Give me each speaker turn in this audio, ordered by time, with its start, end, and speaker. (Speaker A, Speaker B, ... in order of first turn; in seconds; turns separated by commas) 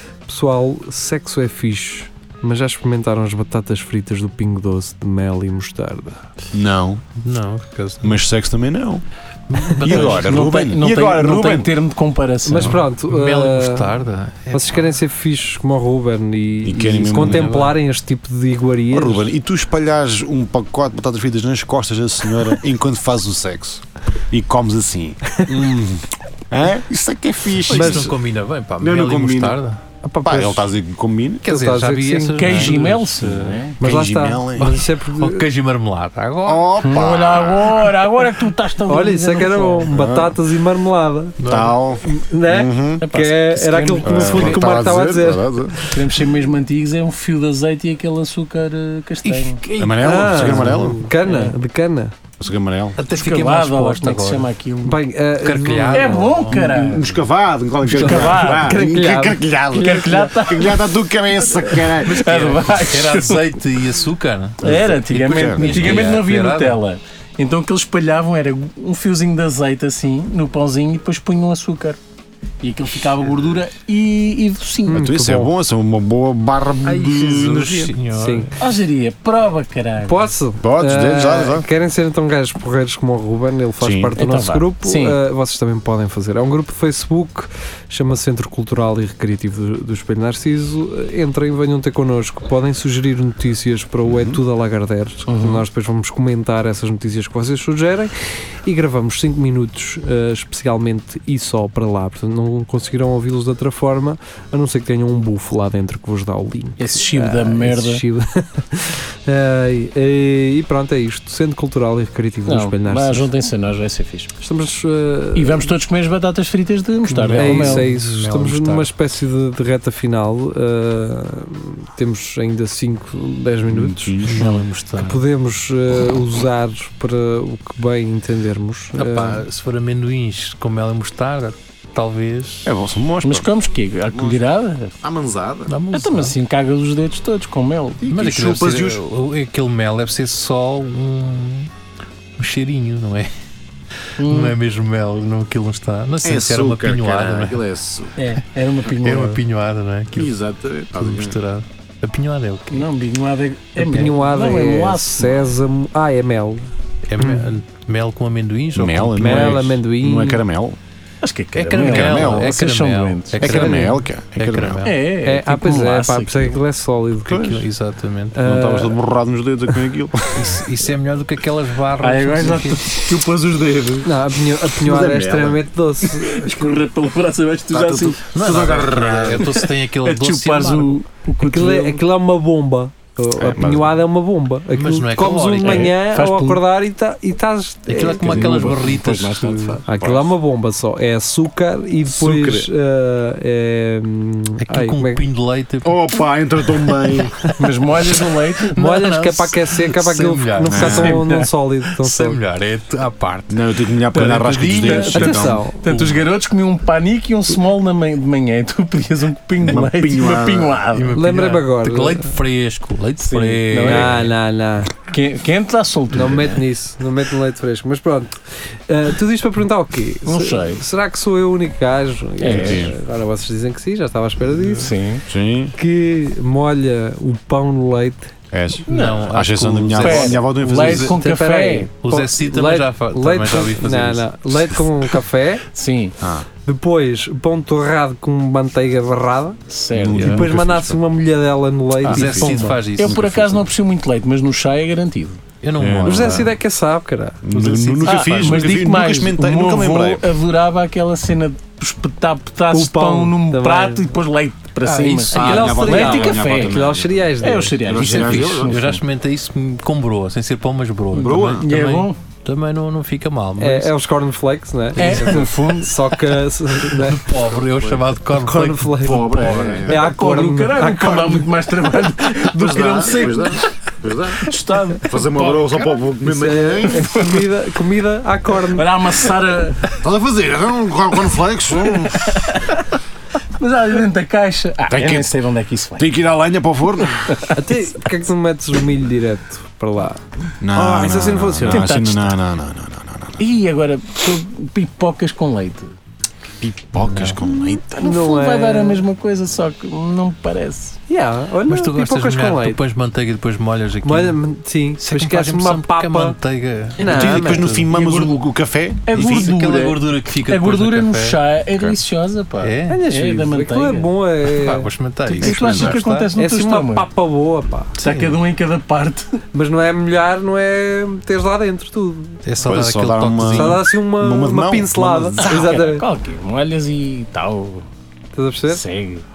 Speaker A: 0.3-6.2, Speaker B: 6.5-7.0, Speaker C: 7.2-8.2, Speaker B: 8.0-9.0, Speaker C: 9.5-10.3, Speaker B: 9.7-11.7, Speaker D: 9.8-12.8, Speaker A: 12.4-14.0, Speaker C: 12.6-14.9, Speaker A: 14.5-19.3, Speaker B: 16.6-17.6, Speaker C: 17.1-17.8, Speaker B: 18.9-28.2, Speaker C: 27.6-29.8, Speaker A: 27.7-28.1, Speaker B: 28.8-29.6, Speaker A: 30.0-30.6, Speaker B: 30.2-31.5, Speaker C: 31.4-33.5, Speaker A: 31.5-32.7, Speaker D: 32.4-33.8, Speaker B: 33.2-34.8, Speaker A: 33.8-35.5, Speaker C: 34.6-36.7, Speaker B: 36.4-37.9, Speaker D: 36.8-39.9, Speaker A: 38.9-41.4, Speaker B: 39.9-40.4, Speaker C: 41.4-41.8, Speaker B: 41.5-43.1, Speaker A: 42.0-45.9, Speaker D: 43.0-44.8, Speaker B: 44.0-45.8, Speaker D: 45.9-50.4, Speaker C: 49.2-50.9, Speaker B: 49.8-51.0, Speaker A: 50.0-52.1, Speaker D: 51.2-51.5, Speaker B: 52.4-53.0, Speaker C: 53.0-54.5, Speaker D: 53.1-55.0, Speaker A: 54.8-56.3, Speaker C: 55.4-56.6, Speaker D: 55.9-57.2, Speaker B: 56.5-62.2, Speaker D: 57.8-58.8, Speaker A: 58.0-60.2, Speaker D: 59.7-63.6, Speaker C: 62.0-66.8, Speaker D: 64.6-72.0, Speaker B: 64.6-66.2, Speaker D: 72.6-75.0, Speaker A: 74.9-75.5, Speaker B: 74.9-77.9, Speaker C: 76.8-78.5, Speaker A: 78.1-78.5, Speaker D: 78.6-80.3, Speaker A: 80.1-98.1, Speaker B: 80.6-81.7, Speaker B: 83.8-84.1, Speaker D: 84.2-85.2, Speaker B: 94.0-94.4, Speaker D: 95.3-95.6, Speaker A: 98.6-113.3, Speaker D: 106.8-108.0, Speaker D: 112.5-114.3, Speaker A: 114.4-115.7, Speaker D: 115.3-117.8, Speaker C: 117.1-118.9, Speaker A: 117.4-124.2, Speaker B: 123.7-124.4, Speaker C: 124.2-125.2, Speaker D: 124.4-124.7, Speaker A: 125.0-129.4, Speaker C: 128.9-132.7, Speaker B: 132.6-133.5, Speaker D: 133.2-134.9, Speaker B: 134.1-134.4, Speaker B: 135.0-135.8, Speaker C: 135.7-136.3, Speaker D: 135.9-138.0, Speaker B: 138.0-139.0, Speaker C: 138.1-141.7, Speaker C: 142.3-143.3, Speaker D: 144.2-144.6, Speaker C: 144.2-147.6, Speaker B: 146.2-148.2, Speaker D: 148.2-149.4, Speaker C: 149.0-150.3, Speaker B: 150.1-151.4, Speaker C: 150.9-152.8, Speaker D: 152.7-155.5, Speaker A: 153.8-156.7, Speaker C: 157.1-159.7, Speaker A: 157.2-157.5, Speaker B: 158.7-160.8, Speaker A: 159.2-160.4, Speaker D: 161.2-163.6, Speaker C: 161.6-164.9, Speaker B: 161.8-162.6, Speaker B: 163.4-164.9, Speaker A: 163.4-164.0, Speaker D: 164.8-166.6, Speaker A: 165.2-167.4, Speaker B: 167.3-167.6, Speaker C: 167.3-168.4, Speaker A: 168.3-168.9, Speaker B: 168.4-170.7, Speaker C: 170.3-172.9, Speaker D: 172.0-174.1, Speaker A: 174.0-176.8, Speaker D: 174.7-178.8, Speaker B: 177.7-179.5, Speaker C: 178.3-181.0, Speaker D: 179.4-182.0, Speaker A: 181.4-188.2, Speaker B: 183.4-183.9, Speaker C: 184.7-185.9, Speaker D: 185.6-186.6, Speaker C: 187.9-189.8, Speaker B: 188.1-189.2, Speaker D: 188.2-189.8, Speaker A: 189.9-195.2, Speaker B: 190.0-190.3, Speaker B: 192.1-192.7, Speaker C: 194.6-195.9, Speaker B: 195.8-197.4, Speaker D: 197.6-198.8, Speaker C: 198.7-201.2, Speaker A: 198.7-202.4, Speaker B: 200.7-201.2, Speaker D: 200.8-201.5, Speaker C: 202.0-206.3, Speaker B: 203.5-205.6, Speaker D: 204.7-211.2, Speaker A: 205.1-205.8, Speaker B: 209.6-210.8, Speaker C: 210.9-214.3, Speaker A: 211.1-212.3, Speaker D: 213.2-214.3, Speaker A: 213.8-214.9, Speaker D: 215.0-216.6, Speaker A: 216.1-224.9, Speaker D: 220.2-220.8, Speaker D: 222.4-222.9, Speaker B: 222.4-222.9, Speaker D: 224.6-225.2, Speaker B: 225.3-225.7, Speaker A: 225.8-228.3, Speaker B: 228.5-231.1, Speaker D: 228.9-229.3, Speaker C: 228.9-231.2, Speaker D: 230.0-231.9, Speaker A: 231.0-235.6, Speaker C: 232.0-234.3, Speaker D: 235.7-236.2, Speaker B: 236.2-236.4, Speaker A: 236.7-239.6, Speaker D: 239.7-240.5, Speaker B: 239.9-241.0, Speaker A: 240.2-242.8, Speaker C: 242.0-243.2, Speaker B: 242.0-243.7, Speaker D: 243.0-245.4, Speaker C: 245.6-246.5, Speaker B: 245.8-246.5, Speaker A: 246.0-248.5, Speaker B: 247.4-250.3, Speaker D: 248.0-256.8, Speaker A: 252.7-254.1, Speaker A: 254.8-257.8, Speaker C: 255.3-255.8, Speaker B: 255.3-257.3, Speaker D: 257.4-259.0, Speaker B: 257.8-258.8, Speaker C: 257.9-263.9, Speaker D: 261.1-262.2, Speaker B: 261.1-261.7, Speaker A: 263.6-267.3, Speaker D: 264.9-267.0, Speaker C: 265.0-265.3, Speaker C: 267.1-269.9, Speaker A: 268.4-271.5, Speaker B: 269.0-270.1, Speaker D: 269.9-273.7, Speaker B: 272.5-274.5, Speaker D: 274.4-276.0, Speaker B: 275.0-277.3, Speaker A: 276.2-278.9, Speaker D: 276.8-277.5, Speaker D: 278.5-279.9, Speaker B: 279.9-282.4, Speaker D: 281.9-282.8, Speaker D: 283.6-286.1, Speaker B: 284.9-285.3, Speaker B: 286.0-287.3, Speaker D: 287.3-287.5, Speaker A: 287.5-291.9, Speaker B: 290.6-293.4, Speaker D: 291.7-292.3, Speaker D: 293.4-295.9, Speaker B: 296.6-297.8, Speaker D: 297.8-301.0, Speaker A: 297.9-299.1, Speaker A: 301.1-302.8, Speaker C: 301.6-304.4, Speaker A: 304.0-306.4, Speaker C: 305.0-308.0, Speaker A: 307.0-307.7, Speaker B: 307.0-309.6, Speaker D: 307.9-308.3, Speaker D: 309.1-314.1, Speaker C: 309.1-311.4, Speaker B: 311.7-312.0, Speaker C: 312.6-313.0, Speaker A: 312.9-314.9, Speaker C: 314.5-316.3, Speaker D: 315.3-317.1, Speaker B: 315.4-316.0, Speaker A: 316.3-317.9, Speaker D: 318.0-319.4, Speaker C: 318.0-318.4, Speaker A: 319.5-322.4, Speaker C: 322.4-323.9, Speaker B: 322.6-325.9, Speaker A: 323.5-326.0, Speaker D: 325.4-327.9, Speaker A: 328.3-328.8, Speaker D: 328.7-329.2